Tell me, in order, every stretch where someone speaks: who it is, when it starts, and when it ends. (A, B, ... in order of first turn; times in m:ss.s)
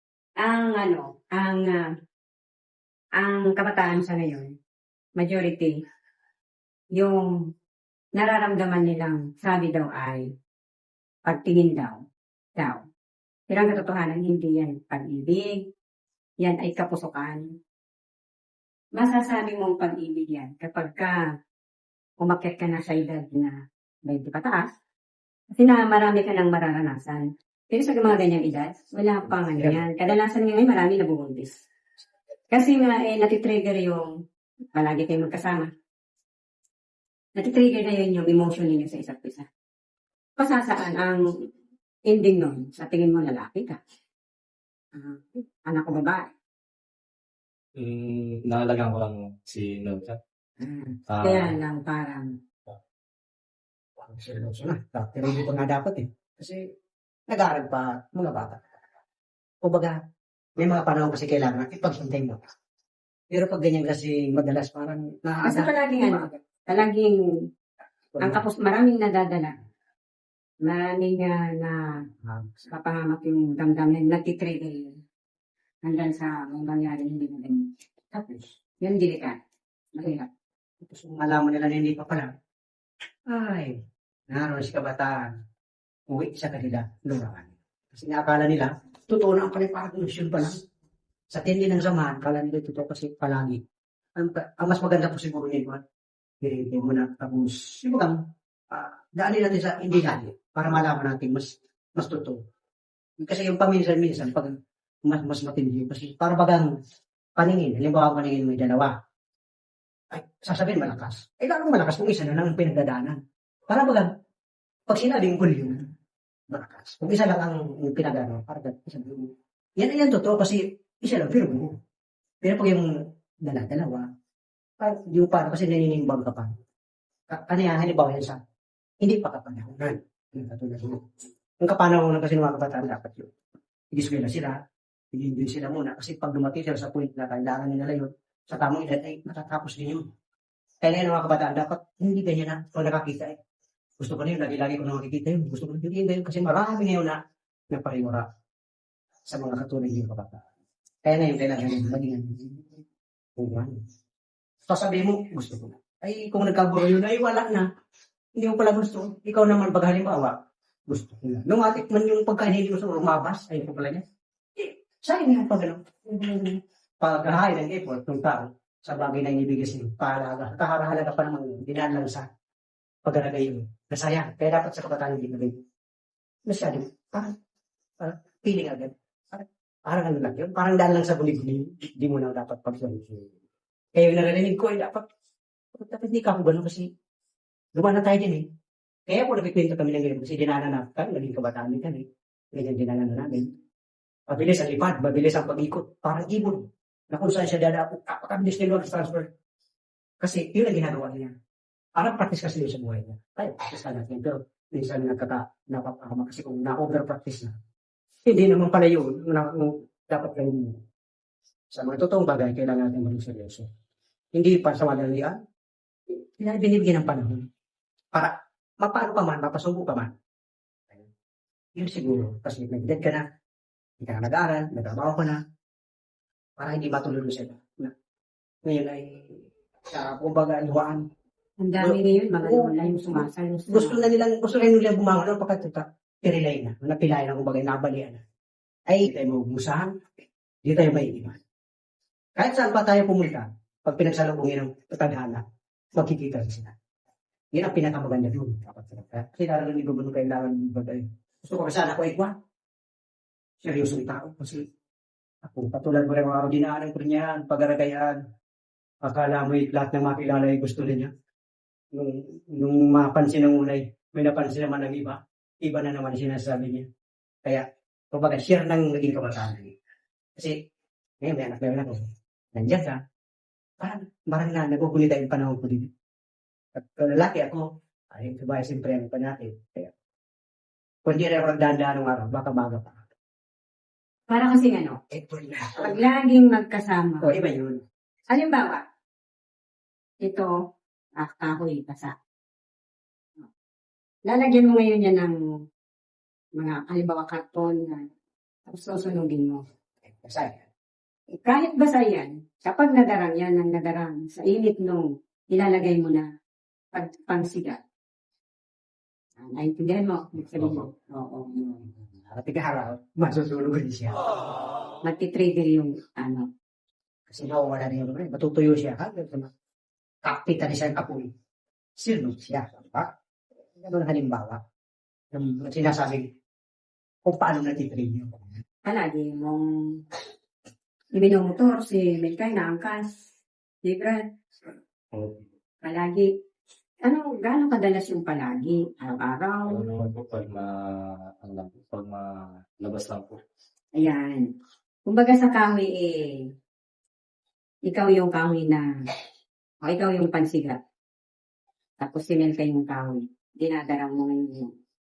0:00.4-0:01.9 A
0:03.2-0:04.6 A
0:05.2-0:05.8 A
0:07.0-0:07.4 A
0:08.2-0:10.3 A
0:11.3-0:12.0 A
0:12.6-0:12.8 A
0:13.5-0:15.6 A
0:16.4-0:17.4 A
0:19.0-0:21.2 A
0:22.2-0:24.7 A
0:25.6-0:31.6 A
0:29.6-0:29.8 B
0:32.5-0:34.1 A
0:34.8-0:35.7 A
0:37.4-0:39.5 A
0:40.4-0:41.2 A
0:42.1-0:43.8 A
0:44.9-0:46.3 A
0:47.8-0:50.2 C
0:50.7-0:52.3 A
0:51.1-0:51.6 C
0:54.0-0:56.6 B
0:57.3-0:58.7 B
0:59.6-1:00.0 B
1:00.6-1:02.4 B
1:03.3-1:06.3 B
1:05.4-1:07.2 A
1:08.2-1:09.5 A
1:10.7-1:12.0 A
1:12.2-1:12.7 B
1:12.7-1:15.0 A
1:15.8-1:17.6 A
1:18.1-1:18.5 B
1:18.8-1:19.4 A
1:20.0-1:20.3 A
1:20.8-1:22.3 B
1:23.3-1:23.8 B
1:24.3-1:25.3 B
1:26.1-1:30.6 B
1:31.3-1:33.6 B
1:34.2-1:35.8 B
1:36.4-1:38.2 B
1:38.7-1:42.4 B
1:43.2-1:44.6 B
1:45.1-1:46.7 B
1:47.4-1:49.0 B
1:50.1-1:53.2 B
1:53.7-1:54.1 B
1:54.9-1:55.9 B
1:56.5-2:01.8 B
2:02.4-2:02.9 B
2:03.4-2:04.1 B
2:04.8-2:06.6 B
2:07.3-2:08.4 B
2:09.0-2:11.0 B
2:11.6-2:13.3 B
2:13.9-2:14.6 B
2:15.1-2:20.1 B
2:20.8-2:23.4 B
2:24.0-2:27.2 B
2:27.7-2:28.3 B
2:29.3-2:30.4 B
2:31.0-2:32.8 B
2:33.4-2:33.8 B
2:34.7-2:37.7 B
2:38.4-2:40.4 B
2:40.9-2:44.0 B
2:44.6-2:52.3 B
2:53.0-2:55.6 B
2:56.5-2:57.3 B
2:58.0-3:03.4 B
3:04.0-3:05.1 B
3:05.7-3:06.9 B
3:07.8-3:08.4 B
3:09.1-3:13.5 B
3:14.3-3:19.3 B
3:20.2-3:21.3 B
3:22.0-3:27.5 B
3:28.2-3:30.8 B
3:31.7-3:33.7 B
3:34.3-3:35.4 B
3:36.1-3:37.4 B
3:38.1-3:40.1 B
3:41.8-3:43.2 B
3:44.0-3:45.4 B
3:46.6-3:47.9 B
3:48.6-3:51.0 B
3:51.6-3:54.1 A
3:51.8-3:58.2 B
3:58.9-3:59.9 B
4:00.6-4:01.4 B
4:02.4-4:05.4 B
4:06.0-4:06.8 B
4:07.5-4:12.3 B
4:13.6-4:14.7 B
4:15.4-4:18.2 B
4:19.0-4:21.1 B
4:21.9-4:26.9 B
4:27.4-4:29.7 B
4:31.2-4:33.0 B
4:33.8-4:35.9 B
4:36.8-4:39.9 B
4:41.0-4:43.0 B
4:44.3-4:45.0 A
4:45.1-4:46.0 B
4:45.8-4:47.3 A
4:47.2-4:47.8 B
4:48.3-4:48.8 A
4:50.2-4:50.5 A
4:51.2-4:52.2 A
4:54.3-4:55.4 A
4:56.6-4:58.1 A
4:58.7-4:59.6 A
5:00.1-5:00.6 B
5:01.4-5:06.3 A
5:06.9-5:07.8 A
5:09.4-5:11.9 A
5:12.0-5:14.2 B
5:15.0-5:16.5 A
5:17.3-5:19.5 B
5:20.2-5:21.3 B
5:22.0-5:23.1 B
5:23.8-5:24.6 B
5:25.3-5:26.3 B
5:27.2-5:28.4 B
5:28.9-5:30.0 A
5:31.1-5:33.2 A
5:33.8-5:34.2 A
5:35.1-5:35.5 C
5:35.8-5:36.3 A
5:37.0-5:39.8 A
5:39.7-5:40.8 C
5:41.4-5:42.3 C
5:42.8-5:43.4 C
5:44.0-5:44.5 A
5:45.1-5:46.4 A
5:47.9-5:48.9 A
5:49.8-5:50.8 A
5:52.0-5:54.7 A